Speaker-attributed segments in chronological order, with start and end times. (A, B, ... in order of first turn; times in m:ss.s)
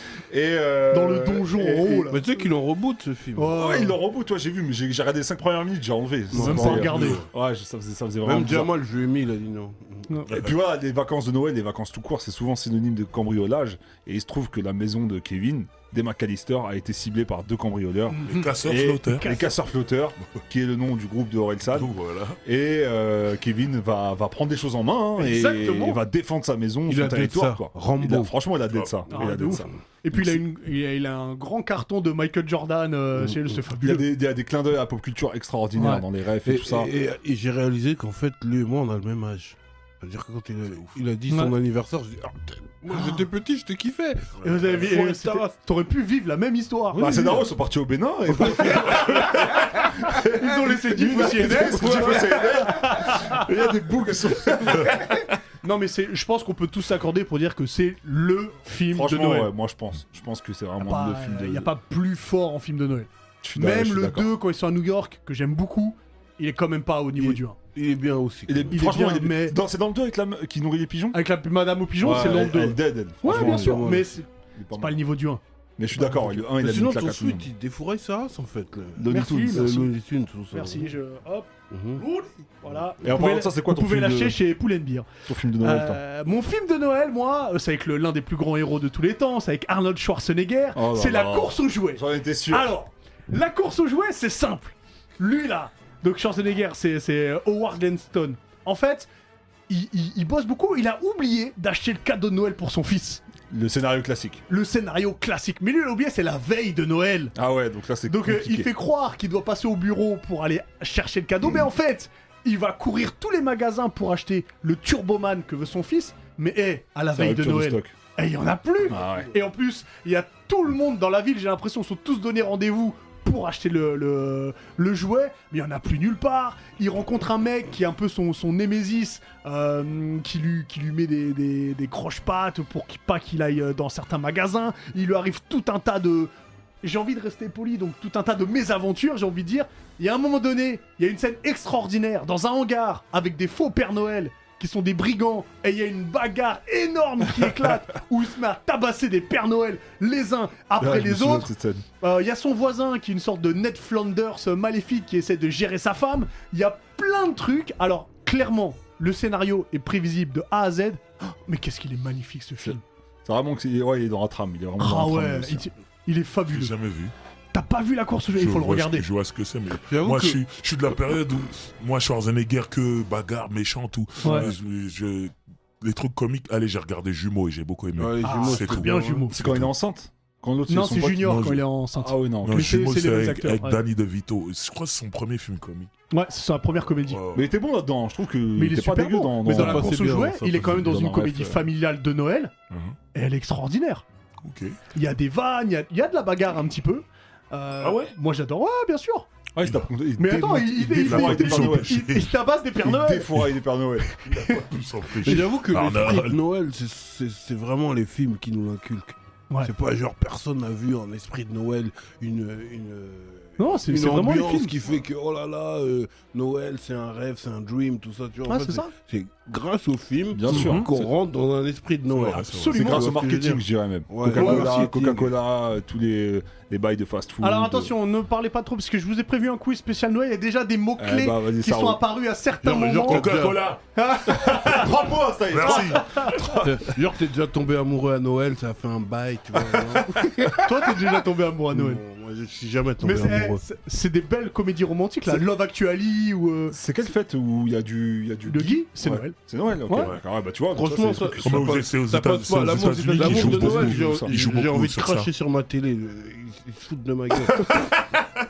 0:00.3-0:02.1 A
0:00.9-0:02.5 B
0:02.1-0:03.6 C
0:03.4-0:04.0 B
0:03.5-0:08.7 A
0:06.3-0:07.1 C
0:06.4-0:07.2 B
0:08.2-0:10.1 C
0:10.3-0:21.9 A
0:18.1-0:18.6 B
0:18.2-0:19.3 D
0:19.1-0:19.6 B
0:21.7-0:22.4 D
0:22.4-0:30.4 A
0:25.2-0:26.0 B
0:26.9-0:28.3 C
0:28.7-0:29.0 D
0:29.1-0:34.1 B
0:33.8-0:36.9 A
0:35.8-0:36.0 B
0:36.5-0:45.5 C
0:41.3-0:41.5 B
0:42.9-0:43.2 B
0:44.4-0:47.0 B
0:46.9-0:47.5 C
0:47.0-0:55.2 A
0:48.4-0:49.2 C
0:50.2-0:53.4 B
0:51.5-0:52.4 C
0:55.6-0:59.5 B
0:58.9-1:01.7 A
1:00.8-1:07.6 B
1:03.4-1:04.3 A
1:07.2-1:08.9 C
1:08.5-1:11.2 A
1:08.7-1:09.6 B
1:11.1-1:15.4 B
1:12.0-1:15.0 A
1:12.0-1:12.3 C
1:13.2-1:14.1 C
1:15.8-1:17.5 A
1:16.1-1:20.9 C
1:19.0-1:19.9 A
1:19.1-1:19.9 B
1:20.5-1:21.5 B
1:21.7-1:22.0 C
1:22.0-1:22.3 D
1:22.6-1:25.1 B
1:23.0-1:24.4 A
1:25.3-1:26.0 A
1:25.6-1:39.1 B
1:30.8-1:32.7 A
1:39.7-1:43.2 B
1:43.5-1:44.4 A
1:44.5-1:47.4 B
1:47.4-1:48.7 A
1:48.1-2:16.3 B
1:57.1-1:57.9 A
1:58.9-1:59.3 A
2:16.8-2:42.8 B
2:30.8-2:31.8 A
2:42.6-2:45.7 A
2:44.8-2:46.7 B
2:46.5-2:47.1 D
2:47.5-2:49.1 B
2:48.4-2:59.0 D
2:49.9-2:50.4 C
2:54.2-2:54.5 B
2:58.0-2:59.3 C
2:58.2-2:59.7 B
2:59.3-3:02.8 A
3:00.7-3:03.8 B
3:01.2-3:01.6 D
3:02.4-3:05.9 D
3:06.1-3:07.2 B
3:07.0-3:07.5 D
3:07.3-3:10.0 A
3:08.6-3:12.5 B
3:09.5-3:10.8 C
3:10.5-3:11.7 A
3:12.7-3:13.0 D
3:13.1-3:14.0 B
3:14.4-3:14.8 D
3:15.0-3:19.3 B
3:17.8-3:18.1 D
3:19.5-3:22.0 A
3:20.2-3:23.5 B
3:21.0-3:22.4 D
3:22.8-3:24.1 A
3:24.2-3:26.4 D
3:25.2-3:45.3 C
3:33.6-3:34.8 B
3:38.5-3:38.9 B
3:40.3-3:41.1 A
3:40.5-3:40.9 B
3:42.1-3:42.7 D
3:42.3-3:43.1 B
3:42.7-3:47.9 A
3:44.3-3:44.9 B
3:47.4-3:53.4 B
3:51.0-3:52.0 A
3:52.6-3:53.7 C
3:53.1-3:53.8 D
3:54.0-3:54.9 B
3:54.3-3:56.8 A
3:55.5-3:56.6 D
3:55.7-3:56.4 B
3:56.6-4:00.9 C
4:00.0-4:00.4 A
4:00.6-4:02.0 B
4:01.7-4:03.6 C
4:03.0-4:06.8 B
4:06.7-4:11.8 A
4:08.5-4:09.4 B
4:09.9-4:10.1 B
4:10.7-4:18.0 C
4:11.4-4:15.3 D
4:13.1-4:14.4 A